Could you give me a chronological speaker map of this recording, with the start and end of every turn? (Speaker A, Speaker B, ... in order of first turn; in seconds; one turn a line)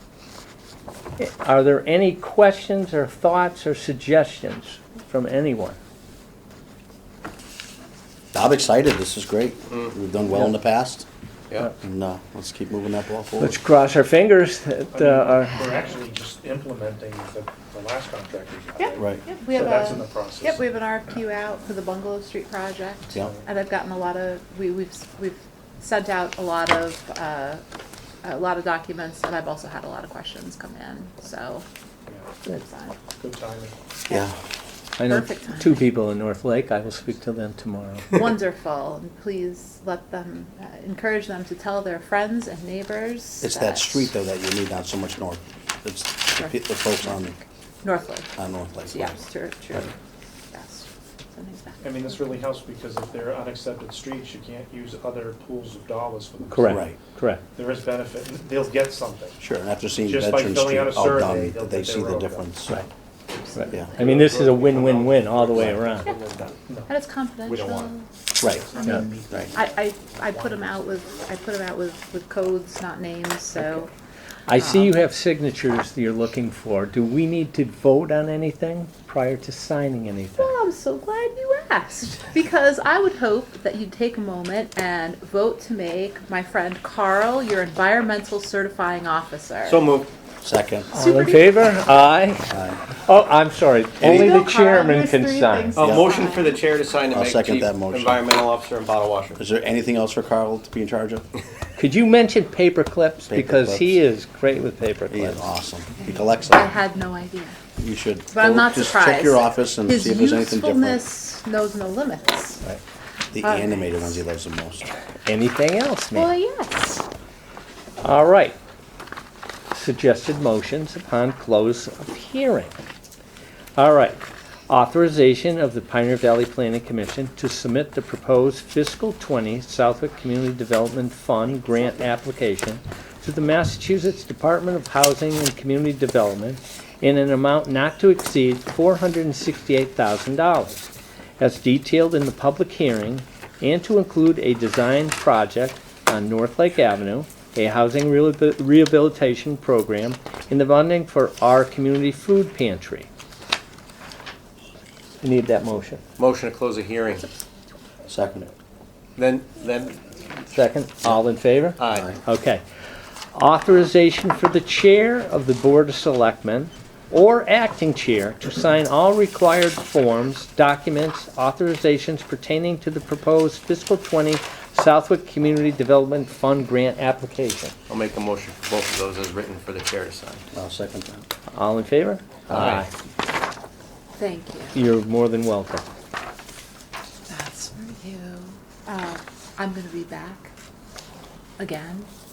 Speaker A: 1.2-5.8
Speaker B: 8.3-11.1
Speaker B: 11.8-13.6
Speaker A: 13.4-15.7
Speaker C: 14.9-20.6
Speaker D: 18.8-27.6
Speaker B: 18.9-19.2
Speaker D: 28.2-31.6
Speaker D: 32.5-33.0
Speaker C: 33.2-33.7
Speaker A: 35.0-38.2
Speaker D: 35.0-35.9
Speaker D: 38.1-44.1
Speaker B: 43.4-47.3
Speaker D: 46.4-48.3
Speaker B: 48.4-49.2
Speaker D: 48.9-49.9
Speaker D: 50.5-51.8
Speaker C: 51.8-56.9
Speaker A: 56.5-57.4
Speaker B: 56.6-57.0
Speaker C: 57.5-59.4
Speaker B: 59.4-62.8
Speaker C: 60.0-62.6
Speaker D: 63.5-64.0
Speaker A: 63.6-66.1
Speaker B: 63.7-64.0
Speaker E: 63.9-66.6
Speaker B: 65.5-65.8
Speaker C: 66.7-66.9
Speaker D: 66.9-68.1
Speaker C: 67.5-67.9
Speaker B: 68.4-68.7
Speaker C: 68.5-71.0
Speaker D: 68.8-73.9
Speaker A: 74.5-80.5
Speaker D: 74.5-74.9
Speaker D: 80.4-89.9
Speaker E: 89.6-90.1
Speaker B: 90.4-90.9
Speaker D: 90.9-91.7
Speaker A: 90.9-95.7
Speaker B: 92.5-92.8
Speaker D: 94.0-96.6
Speaker E: 95.7-99.4
Speaker B: 95.8-96.1
Speaker B: 97.1-98.2
Speaker B: 99.4-101.2
Speaker A: 101.8-105.5
Speaker B: 103.3-104.0
Speaker B: 105.1-106.7
Speaker D: 106.5-107.6
Speaker B: 107.8-111.0
Speaker D: 108.3-112.6
Speaker B: 113.3-114.9
Speaker D: 113.4-114.2
Speaker A: 115.2-116.3
Speaker D: 116.1-117.0
Speaker A: 118.0-118.6
Speaker A: 119.7-122.8
Speaker A: 123.8-153.1
Speaker A: 155.2-156.0
Speaker E: 156.2-157.3
Speaker B: 158.1-158.5
Speaker E: 159.2-160.4
Speaker A: 160.5-162.6
Speaker E: 161.8-162.1
Speaker B: 161.9-162.2
Speaker A: 163.3-177.7
Speaker E: 177.9-180.4
Speaker B: 180.5-181.2
Speaker A: 181.5-182.9
Speaker E: 182.5-182.8
Speaker D: 184.2-184.8
Speaker A: 184.7-185.8
Speaker D: 187.3-190.5
Speaker D: 191.6-192.1